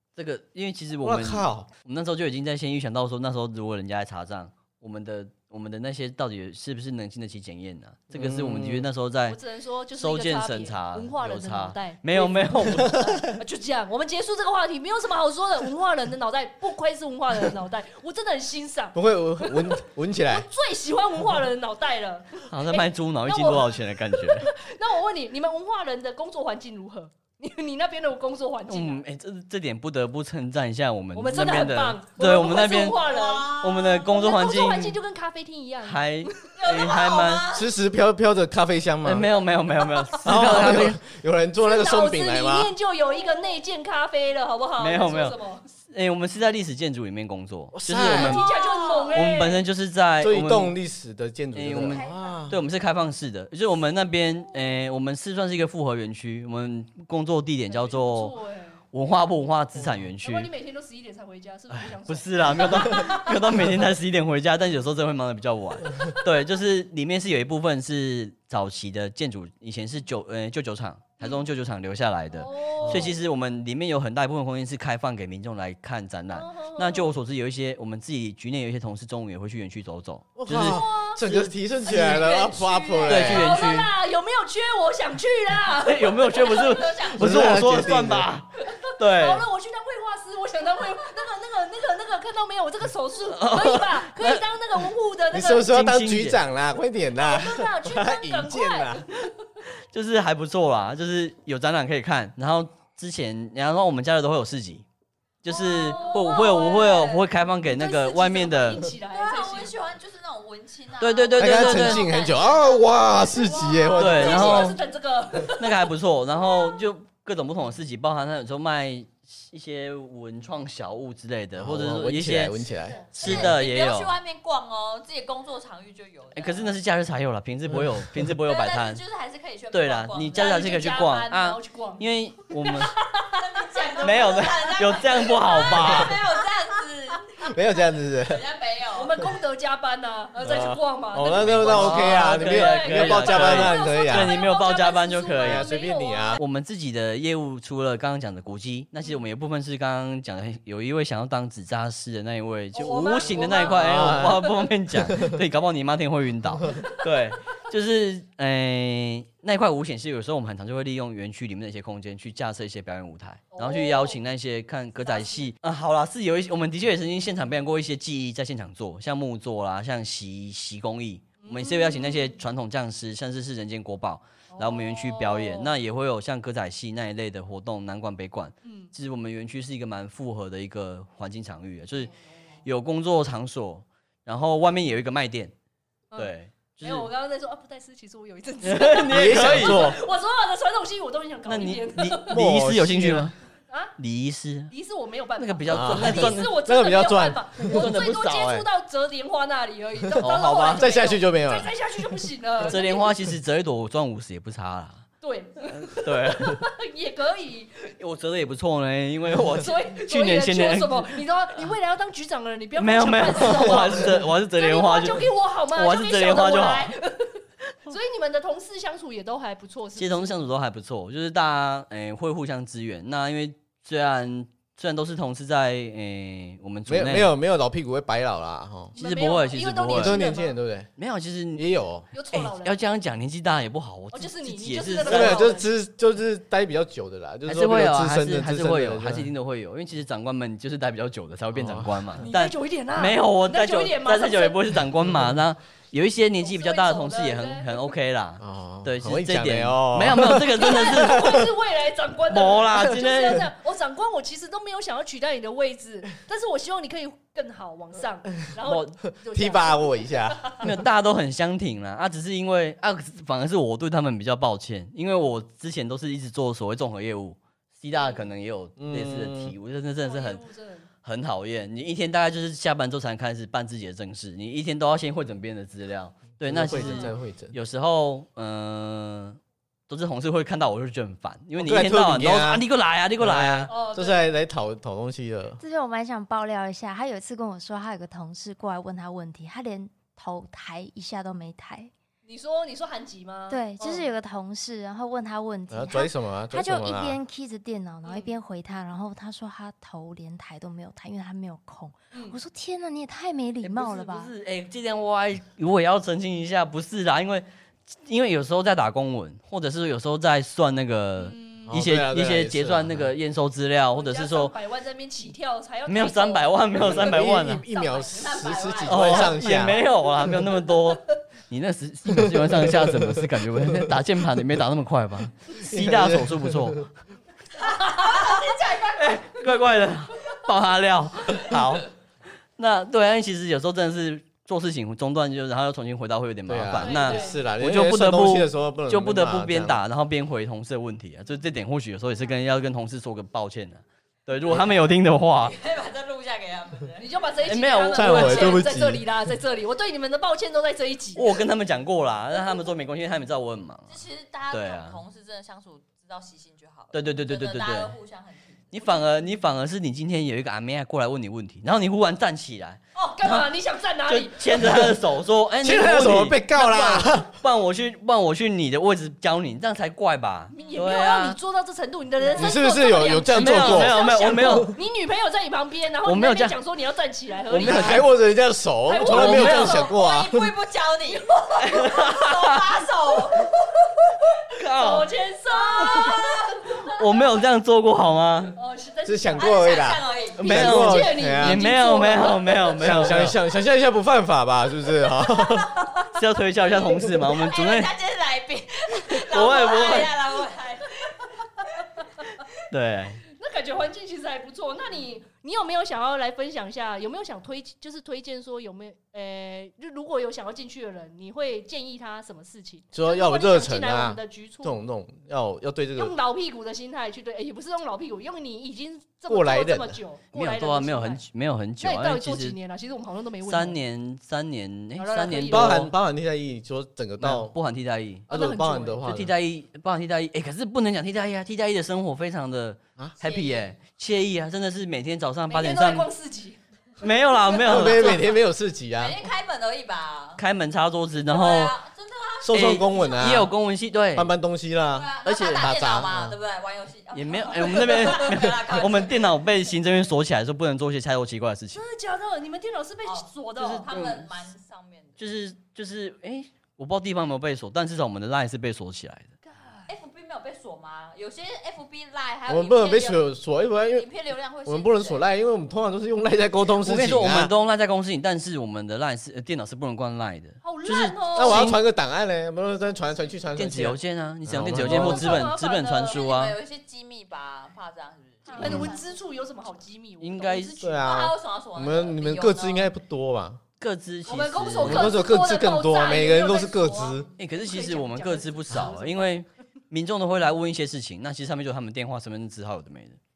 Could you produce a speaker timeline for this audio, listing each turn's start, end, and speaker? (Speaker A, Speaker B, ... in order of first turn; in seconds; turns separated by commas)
Speaker A: 0.1-9.4, Speaker B: 1.0-1.7, Speaker B: 8.1-8.9, Speaker C: 9.3-29.0, Speaker A: 9.9-13.2, Speaker B: 12.9-13.1, Speaker B: 18.9-20.5, Speaker A: 22.5-24.5, Speaker A: 28.7-33.0, Speaker C: 31.1-36.5, Speaker D: 32.6-34.0, Speaker A: 33.6-35.0, Speaker A: 35.8-37.5, Speaker D: 36.6-37.7, Speaker B: 37.5-39.3, Speaker A: 39.0-41.0, Speaker C: 40.0-40.4, Speaker B: 40.2-42.7, Speaker C: 41.6-45.6, Speaker A: 44.8-45.4, Speaker A: 45.9-48.4, Speaker B: 47.7-48.4, Speaker D: 48.2-49.2, Speaker C: 48.2-49.6, Speaker A: 49.1-50.7, Speaker B: 50.2-52.6, Speaker A: 51.5-58.3, Speaker D: 51.8-52.3, Speaker C: 57.7-58.8, Speaker A: 58.9-60.5, Speaker C: 60.2-63.6, Speaker A: 61.7-81.5, Speaker C: 71.2-71.5, Speaker C: 72.3-73.2, Speaker B: 72.8-73.1, Speaker C: 76.3-77.1, Speaker B: 80.3-83.5, Speaker C: 80.6-81.2, Speaker D: 81.8-83.5, Speaker A: 83.1-83.9, Speaker C: 83.2-86.8, Speaker A: 85.8-89.5, Speaker D: 86.2-87.5, Speaker B: 87.1-88.3, Speaker C: 88.6-95.7, Speaker A: 93.3-94.4, Speaker B: 95.3-99.0, Speaker A: 95.6-96.4, Speaker C: 97.2-99.3, Speaker A: 99.9-104.8, Speaker A: 105.4-108.8, Speaker C: 105.5-109.7, Speaker D: 105.8-107.0, Speaker D: 109.1-114.7, Speaker A: 111.0-112.0, Speaker B: 111.3-114.7, Speaker C: 113.5-115.9, Speaker A: 114.0-114.8, Speaker A: 115.5-122.6, Speaker B: 121.6-123.5, Speaker D: 123.1-126.8, Speaker A: 123.2-124.1, Speaker A: 126.3-129.0, Speaker D: 128.4-130.7, Speaker A: 129.7-132.9, Speaker C: 130.3-132.0, Speaker C: 132.6-134.2, Speaker D: 133.4-139.2, Speaker A: 134.0-136.2, Speaker B: 137.4-138.4, Speaker C: 138.9-146.4, Speaker B: 140.4-144.3, Speaker A: 141.5-145.7, Speaker B: 145.4-146.4, Speaker A: 146.4-182.1, Speaker C: 152.7-154.5, Speaker B: 153.6-154.4, Speaker B: 155.1-155.3, Speaker C: 156.7-157.0, Speaker C: 163.5-164.2, Speaker C: 165.0-165.5, Speaker C: 171.4-172.3, Speaker C: 174.5-175.7, Speaker C: 178.6-178.9, Speaker A: 182.6-185.5, Speaker C: 186.1-192.4, Speaker A: 186.2-187.1, Speaker A: 188.6-189.9, Speaker B: 189.1-190.0, Speaker A: 191.4-193.3, Speaker B: 192.3-193.3, Speaker C: 193.7-193.9, Speaker A: 194.0-194.7, Speaker C: 194.7-203.1, Speaker A: 195.4-196.6, Speaker B: 195.7-197.9, Speaker A: 197.6-198.7, Speaker B: 200.1-201.7, Speaker A: 200.2-200.9, Speaker A: 202.6-205.1, Speaker C: 205.2-207.7, Speaker A: 205.7-206.6, Speaker A: 208.0-211.2, Speaker C: 209.6-220.4, Speaker A: 212.8-216.9, Speaker A: 220.0-227.3, Speaker B: 226.9-228.9, Speaker C: 228.9-230.5, Speaker A: 228.9-230.2, Speaker B: 229.9-230.9, Speaker A: 231.0-231.7, Speaker B: 231.5-232.1, Speaker C: 232.1-232.7, Speaker A: 232.3-235.5, Speaker C: 234.1-235.7, Speaker B: 235.1-239.3, Speaker A: 237.4-251.4, Speaker B: 241.5-242.2, Speaker C: 242.2-244.6, Speaker C: 246.4-247.7, Speaker B: 248.4-251.4, Speaker C: 250.5-260.7, Speaker A: 252.3-253.5, Speaker A: 258.6-258.9, Speaker B: 259.2-260.7, Speaker A: 260.6-270.4, Speaker C: 267.9-268.2, Speaker B: 268.8-269.5, Speaker C: 270.0-270.9, Speaker A: 271.0-283.7, Speaker B: 276.4-277.5, Speaker C: 276.8-277.1, Speaker B: 281.6-282.6, Speaker B: 283.2-285.6, Speaker C: 283.7-284.2, Speaker E: 285.6-291.9, Speaker C: 292.2-294.1, Speaker E: 293.5-304.3, Speaker B: 295.7-297.2, Speaker C: 298.0-298.3, Speaker C: 302.1-302.4, Speaker A: 303.6-314.5, Speaker C: 311.2-311.7, Speaker B: 311.7-313.1, Speaker C: 313.9-316.9, Speaker A: 315.9-317.6, Speaker B: 316.8-319.8, Speaker D: 317.7-319.7, Speaker A: 318.8-326.9, Speaker B: 322.1-323.9, Speaker B: 325.5-326.8, Speaker D: 327.6-329.4, Speaker A: 328.9-331.9, Speaker A: 332.6-345.6, Speaker B: 336.5-339.8, Speaker C: 336.8-337.4, Speaker D: 345.4-347.4, Speaker C: 347.0-351.3, Speaker A: 347.4-348.6, Speaker B: 347.9-349.1, Speaker A: 351.1-355.0, Speaker D: 353.9-358.7, Speaker A: 356.9-357.9, Speaker A: 358.7-363.5, Speaker C: 363.0-364.8, Speaker A: 364.1-371.4, Speaker B: 365.6-367.3, Speaker C: 370.5-378.1, Speaker B: 372.3-374.8, Speaker A: 373.3-374.7, Speaker A: 376.0-376.6, Speaker A: 377.5-378.1, Speaker B: 377.6-380.5, Speaker C: 378.9-379.9, Speaker A: 379.1-379.8, Speaker D: 379.4-383.8, Speaker A: 381.6-382.8, Speaker A: 384.6-385.1, Speaker C: 384.7-386.4, Speaker D: 385.5-386.7, Speaker A: 385.9-386.1, Speaker A: 386.9-388.5, Speaker C: 388.5-389.6, Speaker B: 389.1-391.7, Speaker D: 389.4-390.5, Speaker A: 390.4-393.3, Speaker C: 390.4-392.8, Speaker B: 392.8-395.8, Speaker D: 395.4-396.2, Speaker A: 396.1-397.9, Speaker D: 396.7-402.0, Speaker A: 399.1-400.2, Speaker A: 402.7-403.2, Speaker C: 403.3-414.8, Speaker B: 412.9-416.1, Speaker C: 415.9-421.2, Speaker B: 419.3-420.0, Speaker A: 420.3-422.6, Speaker C: 421.8-423.8, Speaker A: 423.4-425.9, Speaker C: 425.0-425.8, Speaker B: 425.5-427.5, Speaker A: 427.2-428.3, Speaker C: 428.3-429.0, Speaker B: 428.3-429.3, Speaker A: 429.0-436.1, Speaker D: 433.2-433.7, Speaker C: 435.5-436.6, Speaker A: 437.0-438.2, Speaker C: 437.5-437.9, Speaker B: 437.6-439.2, Speaker D: 438.9-440.4, Speaker A: 440.4-441.8, Speaker D: 441.3-443.5, Speaker B: 442.4-443.5, Speaker A: 442.5-444.3, Speaker B: 444.1-446.4, Speaker D: 444.9-449.3, Speaker A: 445.2-445.7, Speaker A: 447.1-451.8, Speaker C: 451.7-453.9, Speaker D: 453.0-455.2, Speaker A: 453.6-454.3, Speaker A: 455.2-459.3, Speaker C: 459.4-459.9, Speaker D: 459.9-463.2, Speaker B: 462.5-464.1, Speaker D: 463.9-465.2, Speaker B: 464.6-467.5, Speaker A: 466.8-471.8, Speaker C: 470.6-471.7, Speaker B: 471.3-475.5, Speaker A: 473.5-476.6, Speaker C: 474.8-476.2, Speaker D: 475.8-479.1, Speaker C: 478.5-481.1, Speaker B: 478.6-478.9, Speaker A: 480.2-480.8, Speaker B: 480.8-483.6, Speaker D: 480.9-482.9, Speaker A: 483.8-485.1, Speaker C: 484.3-489.4, Speaker B: 484.8-487.3, Speaker A: 487.4-493.2